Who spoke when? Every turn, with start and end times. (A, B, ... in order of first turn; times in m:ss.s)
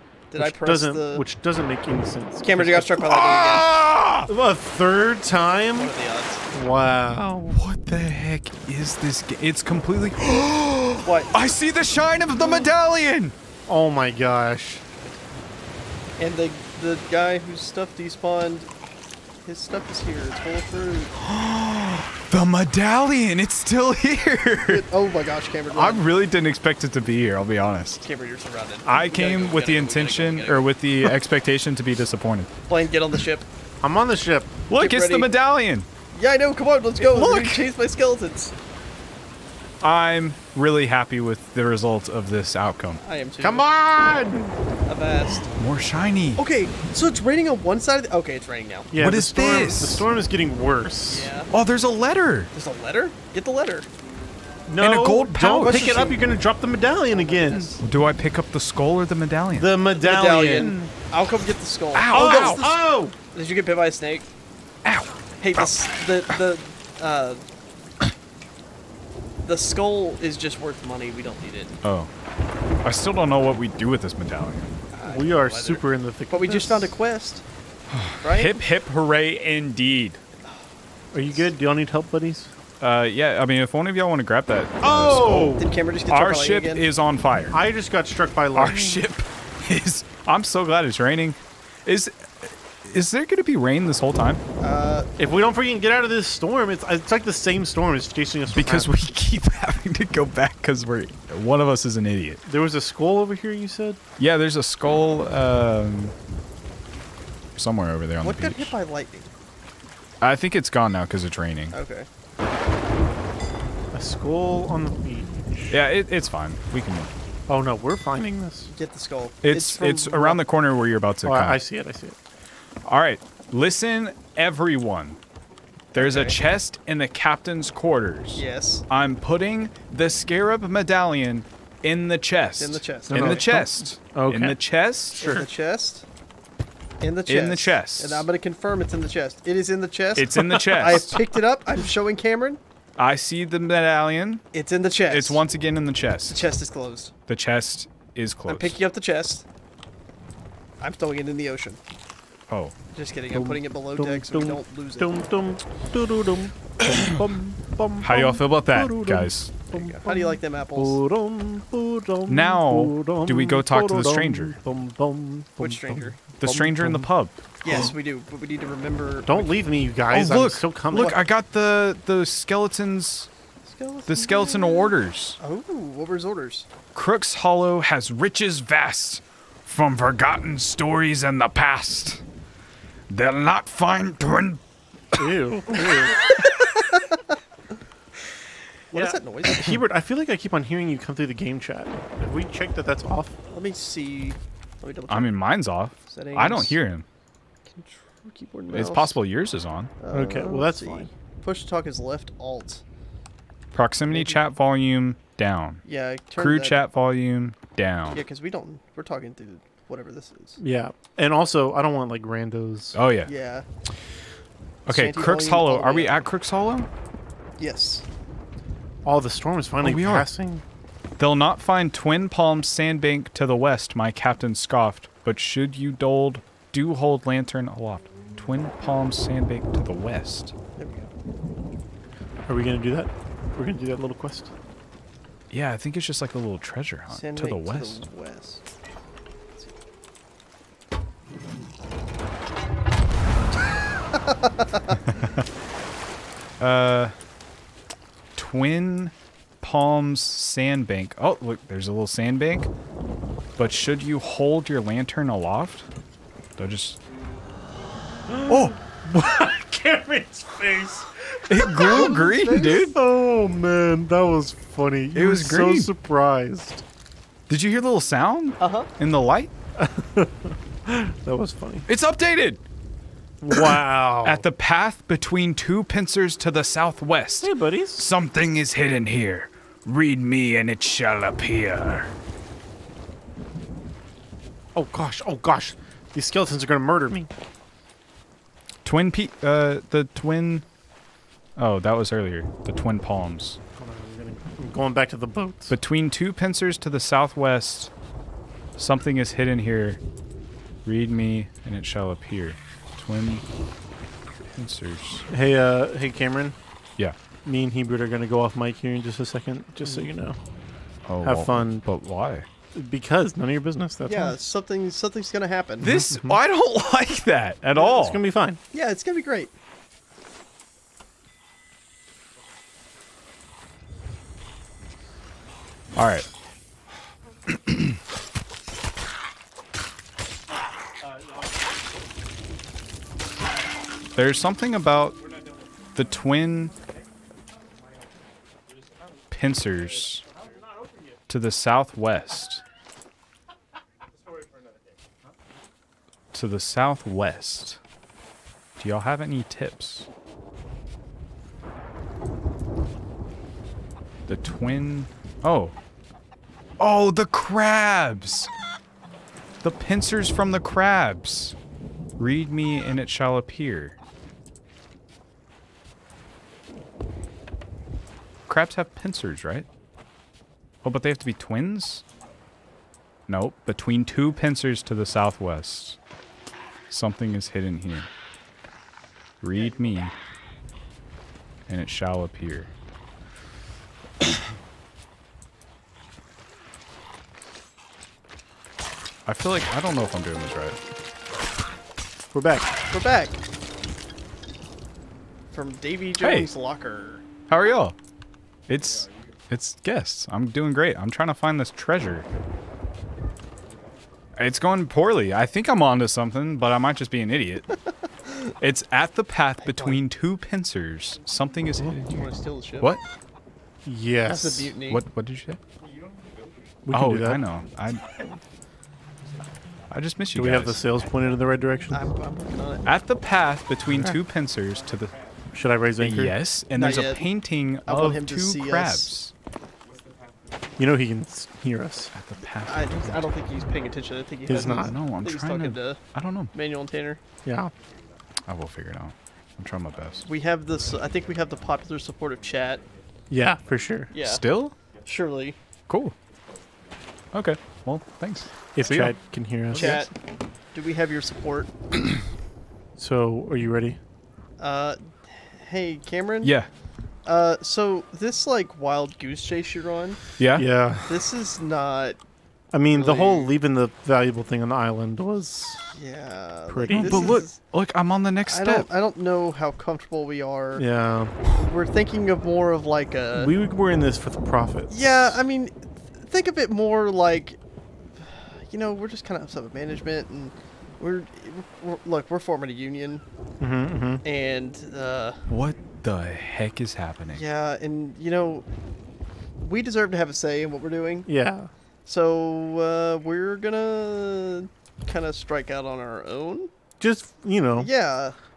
0:00.3-0:01.2 A
0:00.4-0:03.1 B
0:02.4-0:03.8 A
0:03.1-0:04.3 C
0:04.3-0:05.9 B
0:05.7-0:06.5 A
0:06.5-0:07.6 B
0:07.6-0:13.4 C
0:11.0-0:11.4 A
0:13.7-0:14.8 B
0:16.2-0:18.7 A
0:19.4-0:21.1 A
0:21.2-0:24.8 C
0:24.7-0:26.0 A
0:25.7-0:28.1 C
0:28.0-0:30.7 A
0:28.9-0:32.5 C
0:32.7-0:33.5 A
0:33.8-0:34.6 B
0:34.7-0:35.9 C
0:34.7-0:35.3 A
0:36.1-0:38.6 A
0:37.0-0:37.7 C
0:39.8-0:43.0 C
0:43.0-0:43.7 A
0:43.4-0:44.6 B
0:44.9-0:45.5 A
0:45.3-0:46.4 C
0:46.4-0:48.9 A
0:48.9-0:51.3 B
0:49.0-0:50.0 C
0:51.1-0:51.5 A
0:51.5-0:52.5 C
0:52.5-0:53.9 A
0:54.7-0:57.8 B
0:54.8-0:55.9 C
0:55.6-0:56.2 A
0:57.1-0:57.8 A
0:57.8-0:59.7 C
0:59.6-1:00.9 B
1:00.0-1:04.3 A
1:01.9-1:02.7 C
1:02.1-1:03.2 B
1:04.8-1:05.8 C
1:05.4-1:07.4 A
1:09.4-1:11.8 A
1:11.8-1:12.1 C
1:12.8-1:14.8 C
1:14.9-1:17.4 A
1:15.0-1:16.9 B
1:17.9-1:20.2 C
1:18.2-1:18.6 A
1:21.1-1:22.5 B
1:21.2-1:21.4 A
1:22.8-1:27.6 C
1:24.8-1:25.7 B
1:25.6-1:26.8 A
1:27.5-1:29.1 B
1:28.6-1:34.4 C
1:34.6-1:35.1 A
1:35.2-1:39.0 B
1:38.5-1:42.4 C
1:42.5-1:44.0 B
1:44.2-1:46.2 C
1:47.6-1:48.7 C
1:48.2-1:49.3 A
1:50.2-1:51.8 C
1:51.7-1:52.1 A
1:53.9-1:55.8 B
1:55.7-1:57.1 C
1:57.5-1:58.7 B
1:58.7-2:00.4 A
1:59.4-2:01.6 C
2:01.2-2:02.2 B
2:02.9-2:05.2 C
2:05.9-2:15.4 C
2:06.0-2:06.4 A
2:08.4-2:08.8 A
2:12.6-2:13.5 A
2:13.1-2:14.6 B
2:15.2-2:16.1 A
2:15.2-2:15.5 B
2:17.0-2:22.6 A
2:17.3-2:18.2 C
2:20.2-2:21.2 C
2:20.4-2:21.2 B
2:23.0-2:24.4 C
2:24.5-2:25.4 A
2:25.1-2:26.5 C
2:26.3-2:27.1 A
2:27.3-2:28.8 C
2:28.5-2:29.4 A
2:30.8-2:31.8 A
2:32.5-2:32.7 C
2:32.9-2:35.3 A
2:33.3-2:47.1 B
2:36.8-2:37.2 C
2:38.0-2:39.5 C
2:39.7-2:41.0 A
2:42.3-2:44.6 C
2:45.6-2:46.2 A
2:46.4-2:47.9 C
2:47.6-2:49.6 A
2:49.3-2:51.2 B
2:50.1-2:53.3 C
2:50.9-2:51.2 A
2:53.7-2:56.7 A
2:54.1-2:55.4 C
2:56.9-3:02.2 C
3:03.1-3:04.6 C
3:05.1-3:06.3 C
3:05.2-3:06.1 B
3:05.7-3:07.3 A
3:08.9-3:09.8 A
3:08.9-3:13.4 B
3:13.5-3:15.4 A
3:15.1-3:17.1 C
3:16.1-3:16.8 A
3:17.7-3:19.2 A
3:18.7-3:19.9 C
3:20.0-3:22.8 A
3:20.1-3:21.1 B
3:23.7-3:25.8 C
3:24.1-3:24.4 A
3:25.8-3:26.8 A
3:26.4-3:28.2 C
3:28.1-3:30.6 A
3:30.6-3:33.0 B
3:32.9-3:33.3 C
3:33.2-3:33.7 A
3:34.9-3:36.9 C
3:34.9-3:36.1 A
3:37.6-3:38.0 A
3:39.0-3:40.6 B
3:39.8-3:40.3 C
3:41.2-3:50.5 C
3:50.8-3:51.1 A
3:52.5-3:54.5 B
3:55.5-3:58.0 C
3:57.1-3:58.6 A
4:04.3-4:05.0 A
4:04.9-4:05.5 C
4:06.6-4:07.1 C
4:08.4-4:12.7 C
4:13.6-4:15.9 C
4:16.6-4:17.0 C
4:18.3-4:26.8 B
4:18.5-4:18.8 C
4:21.5-4:23.0 C
4:21.7-4:22.9 A
4:25.2-4:25.9 C
4:27.5-4:29.5 C
4:28.6-4:28.9 A
4:29.8-4:31.9 B
4:31.9-4:32.6 C
4:33.4-4:34.5 B
4:33.5-4:42.1 C
4:37.4-4:38.0 B
4:44.8-4:47.3 B
4:48.8-4:50.6 C
4:51.6-4:53.6 C
4:53.8-4:55.8 B
4:55.7-4:57.9 C
4:58.8-5:00.0 C
5:00.8-5:03.4 C
5:04.5-5:05.3 C
5:05.3-5:06.6 B
5:07.4-5:10.4 B
5:11.1-5:12.5 C
5:11.2-5:11.9 B
5:12.7-5:14.4 B
5:14.1-5:15.9 A
5:15.8-5:18.2 C
5:15.9-5:16.4 B
5:17.7-5:18.6 B
5:18.7-5:19.5 A
5:26.0-5:26.3 C
5:27.5-5:28.0 C
5:34.2-5:35.2 C
5:36.0-5:36.8 C
5:39.3-5:40.3 C
5:41.3-5:42.6 C
5:46.3-5:47.8 C
5:48.8-5:50.1 C
5:54.3-5:55.8 C
5:56.8-5:58.5 C
5:59.6-6:01.6 C
6:02.2-6:04.0 C
6:08.5-6:09.7 C
6:10.8-6:12.0 C
6:13.3-6:16.0 C
6:16.9-6:18.1 C
6:19.4-6:20.2 C
6:21.7-6:22.7 C
6:29.3-6:30.8 C
6:32.3-6:32.7 B
6:32.9-6:33.4 A
6:35.5-6:37.2 A
6:36.2-6:36.5 C
6:37.5-6:38.0 C
6:38.7-6:42.3 C
6:44.4-6:47.7 C
6:48.6-6:52.3 C
6:49.6-6:50.0 A
6:52.1-6:53.0 A
6:53.8-6:54.8 B
6:54.3-6:55.0 A
6:54.9-6:55.6 C
6:56.9-6:57.4 B
6:56.9-6:58.2 C
6:59.9-7:00.8 C
7:00.4-7:02.1 B
7:01.9-7:02.9 A
7:02.9-7:05.2 C
7:03.9-7:04.2 B
7:05.5-7:06.4 B
7:06.0-7:09.3 C
7:06.8-7:07.2 A
7:07.8-7:09.1 A
7:10.8-7:12.1 B
7:12.1-7:13.2 C
7:12.7-7:16.0 A
7:14.5-7:15.0 B
7:14.6-7:16.5 C
7:16.5-7:17.2 A
7:17.4-7:17.7 B
7:18.5-7:20.3 C
7:20.2-7:22.8 A
7:23.3-7:24.1 B
7:24.1-7:24.4 A
7:24.2-7:24.8 C
7:25.0-7:25.6 A
7:25.9-7:26.2 C
7:27.3-7:29.2 C
7:28.8-7:30.0 B
7:29.7-7:30.1 A
7:29.8-7:30.1 C
7:30.7-7:31.7 A
7:33.0-7:34.0 B
7:34.6-7:36.6 A
7:36.4-7:36.7 C
7:37.3-7:40.2 A
7:40.4-7:40.7 C
7:40.6-7:41.1 B
7:41.1-7:42.2 A
7:42.7-7:45.8 B
7:42.9-7:43.5 A
7:45.9-7:47.6 A
7:46.7-7:47.4 B
7:46.9-7:48.9 C
7:48.5-7:50.9 A
7:50.8-7:51.4 B
7:51.4-7:53.5 A
7:53.4-7:55.4 B
7:54.9-7:57.6 A
7:58.2-8:03.2 A
8:03.6-8:04.2 B
8:04.2-8:05.4 A
8:05.5-8:07.4 C
8:07.3-8:08.7 A
8:09.6-8:11.3 A
8:11.3-8:11.7 B
8:12.1-8:16.7 A
8:17.0-8:17.9 B
8:17.8-8:18.4 A